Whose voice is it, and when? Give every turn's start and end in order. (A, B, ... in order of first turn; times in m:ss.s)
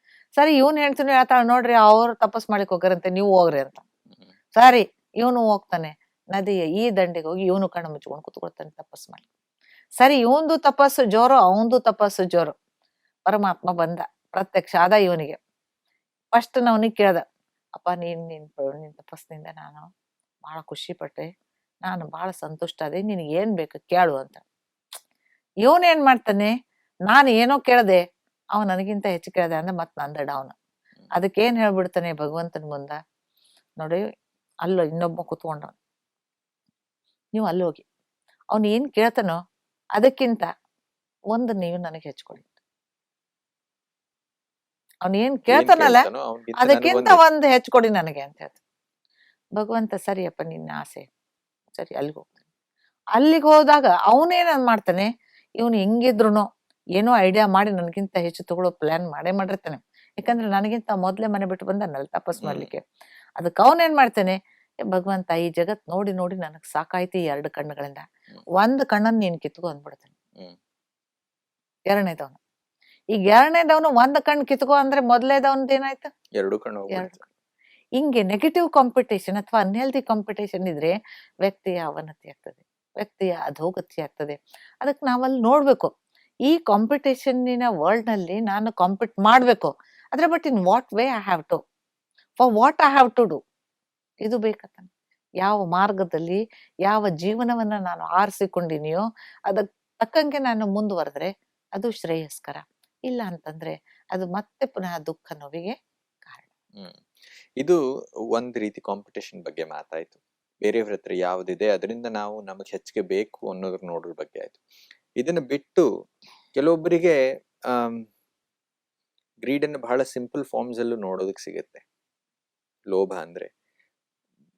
0:00.4-0:03.8 A
0:04.6-0:09.2 A
0:10.0-0:12.5 A
0:13.3-0:15.4 A
0:16.3-0:17.2 A
0:17.8-0:19.9 A
0:20.4-0:21.3 A
0:21.8-0:24.4 A
0:25.6-0:26.5 A
0:27.1-0:28.0 A
0:28.6-0:30.5 A
0:31.1-0:33.0 A
0:34.6-0:35.8 A
0:37.3-0:37.8 A
0:38.5-0:39.4 A
0:40.0-0:40.5 A
0:41.3-0:42.5 A
0:45.0-0:46.1 A
0:45.5-0:47.2 B
0:46.6-0:48.6 A
0:49.6-0:51.1 A
0:51.7-0:52.4 A
0:53.2-0:55.1 A
0:55.6-0:56.5 A
0:57.0-1:02.8 A
1:02.4-1:02.7 B
1:03.4-1:04.3 A
1:04.9-1:08.0 A
1:08.6-1:10.1 A
1:11.9-1:12.4 A
1:13.2-1:16.1 A
1:16.4-1:17.2 B
1:18.0-1:25.9 A
1:26.5-1:31.6 A
1:32.4-1:33.4 A
1:34.2-1:34.9 A
1:35.4-1:45.7 A
1:46.8-1:47.0 B
1:48.3-1:54.6 B
1:55.2-1:55.9 B
1:56.6-1:57.2 B
1:57.7-1:58.1 B
1:59.4-2:01.8 B
2:02.9-2:03.5 B